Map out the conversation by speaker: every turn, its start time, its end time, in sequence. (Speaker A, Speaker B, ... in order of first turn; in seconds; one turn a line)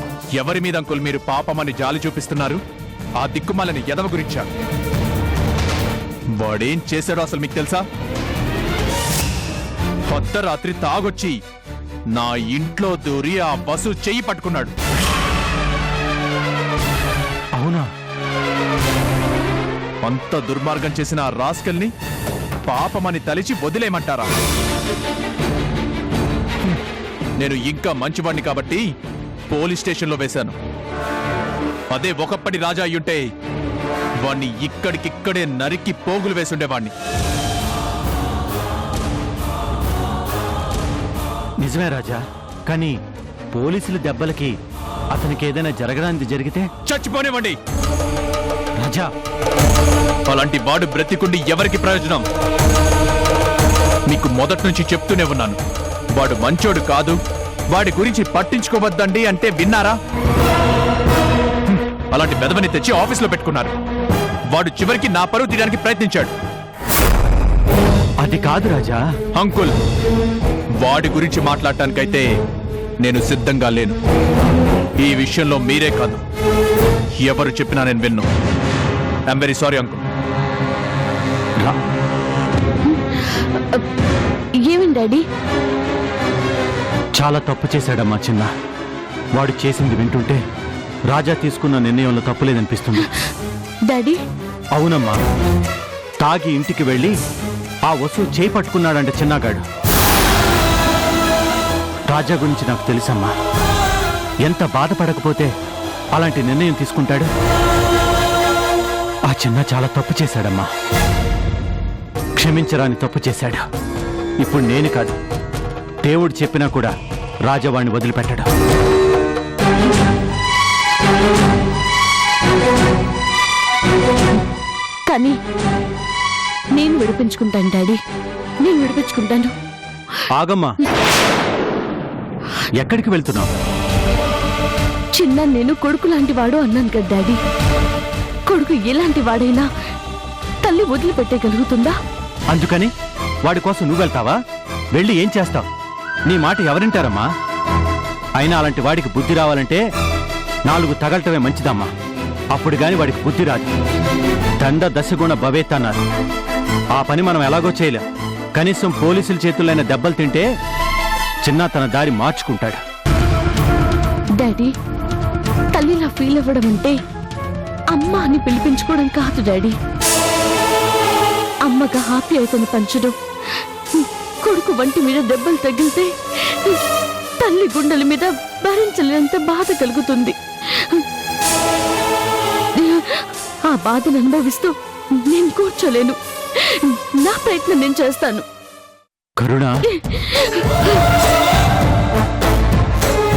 Speaker A: 0.4-2.6
Speaker A: 3.2-4.5
Speaker A: 6.4-7.8
Speaker A: 10.1-11.4
Speaker A: 12.1-14.7
Speaker B: 17.6-17.9
Speaker A: 20.0-21.9
Speaker A: 22.6-24.3
Speaker A: 27.4-28.8
Speaker A: 29.5-30.6
Speaker A: 31.9-33.2
Speaker A: 34.2-36.9
Speaker B: 41.6-43.0
Speaker B: 43.5-44.5
Speaker B: 45.1-46.7
Speaker A: 46.9-47.6
Speaker B: 48.8-49.1
Speaker A: 50.3-52.2
Speaker A: 54.1-55.6
Speaker A: 56.1-57.2
Speaker A: 57.7-60.0
Speaker A: 61.7-63.7
Speaker A: 64.5-66.3
Speaker B: 68.2-69.0
Speaker A: 69.4-69.7
Speaker A: 70.8-72.3
Speaker A: 73.0-74.0
Speaker A: 75.0-76.2
Speaker A: 77.2-78.3
Speaker A: 79.3-80.0
Speaker C: 82.8-83.8
Speaker C: 84.6-85.2
Speaker B: 87.2-88.5
Speaker B: 89.3-90.4
Speaker B: 91.1-93.1
Speaker C: 93.9-94.2
Speaker B: 94.7-95.2
Speaker B: 96.2-97.2
Speaker B: 97.9-99.6
Speaker B: 102.1-103.3
Speaker B: 104.4-105.5
Speaker B: 106.1-107.3
Speaker B: 109.3-110.7
Speaker B: 112.4-113.7
Speaker B: 114.4-115.2
Speaker B: 116.0-116.9
Speaker B: 117.5-118.5
Speaker C: 125.1-125.4
Speaker C: 126.8-128.0
Speaker C: 128.6-129.5
Speaker B: 130.3-130.7
Speaker B: 132.8-133.5
Speaker C: 135.2-137.4
Speaker C: 138.5-139.7
Speaker C: 140.6-142.0
Speaker B: 142.5-142.9
Speaker B: 143.4-144.4
Speaker B: 144.9-145.7
Speaker B: 146.3-147.3
Speaker B: 148.4-149.8
Speaker B: 150.7-151.9
Speaker B: 152.5-153.7
Speaker B: 154.6-156.0
Speaker B: 156.9-158.0
Speaker B: 158.6-160.5
Speaker B: 161.4-162.8
Speaker C: 164.4-164.7
Speaker C: 165.7-166.9
Speaker C: 167.9-169.8
Speaker C: 171.7-176.8
Speaker C: 177.4-181.0
Speaker C: 182.8-188.4
Speaker B: 189.4-189.8
Speaker C: 189.9-191.0